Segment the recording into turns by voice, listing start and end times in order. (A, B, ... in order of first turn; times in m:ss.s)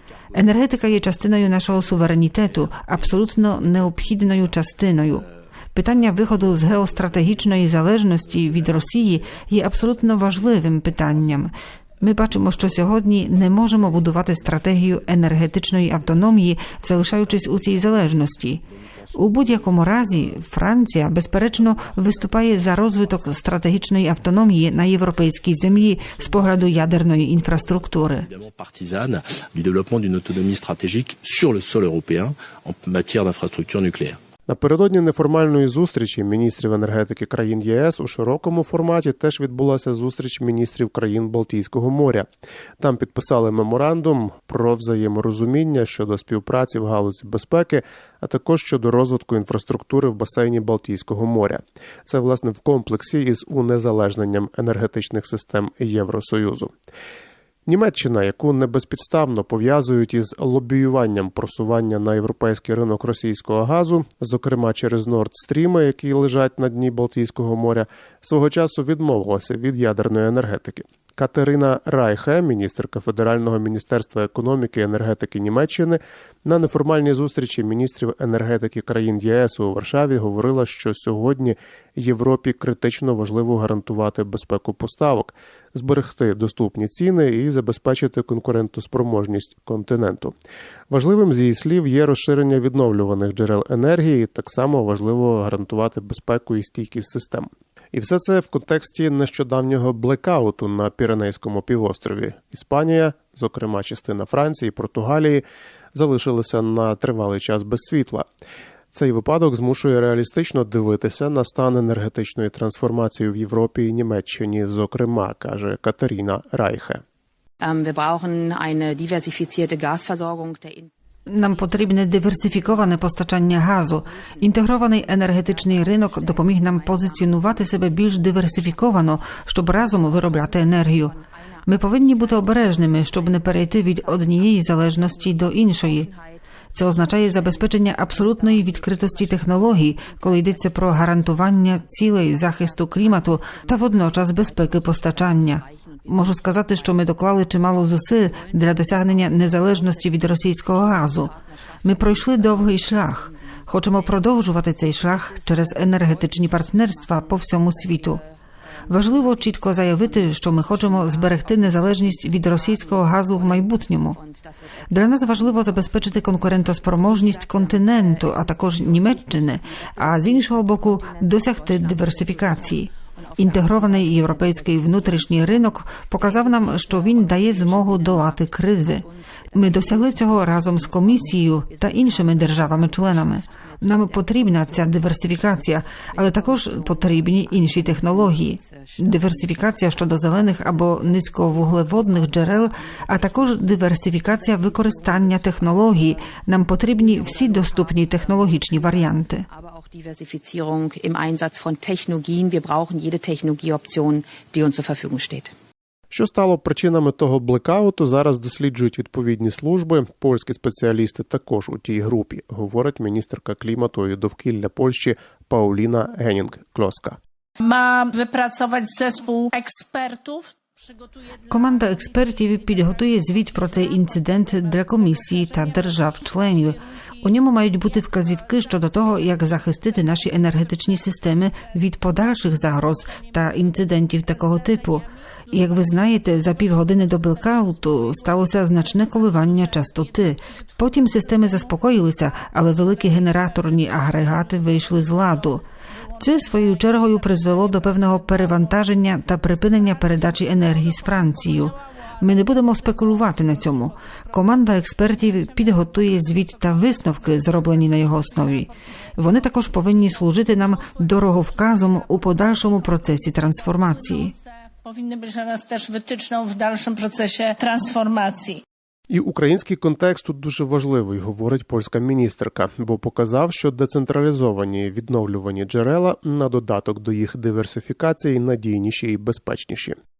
0:00.3-0:28.3 A
0:28.2-0:34.2 B
0:34.5-0:42.3 C
0:42.8-0:56.7 C
0:57.7-1:30.3 C
1:30.9-1:48.2 C
1:48.9-1:57.0 C
1:57.6-2:00.9 D
2:01.3-2:16.1 A
2:04.1-2:09.3 D
2:09.8-2:21.4 D
2:16.7-2:31.3 A
2:22.4-2:27.0 D
2:28.0-3:25.5 D
2:31.8-2:38.2 A
2:38.9-2:44.2 A
2:44.9-3:19.4 A
3:26.1-3:37.2 C
3:37.6-3:47.2 E
3:41.5-4:05.6 A
3:48.1-3:50.6 E
3:54.3-4:01.7 E
4:02.8-4:05.0 E
4:06.1-4:14.0 E
4:06.2-4:24.3 A
4:17.2-4:18.7 E
4:19.4-4:28.6 E
4:29.1-4:40.0 C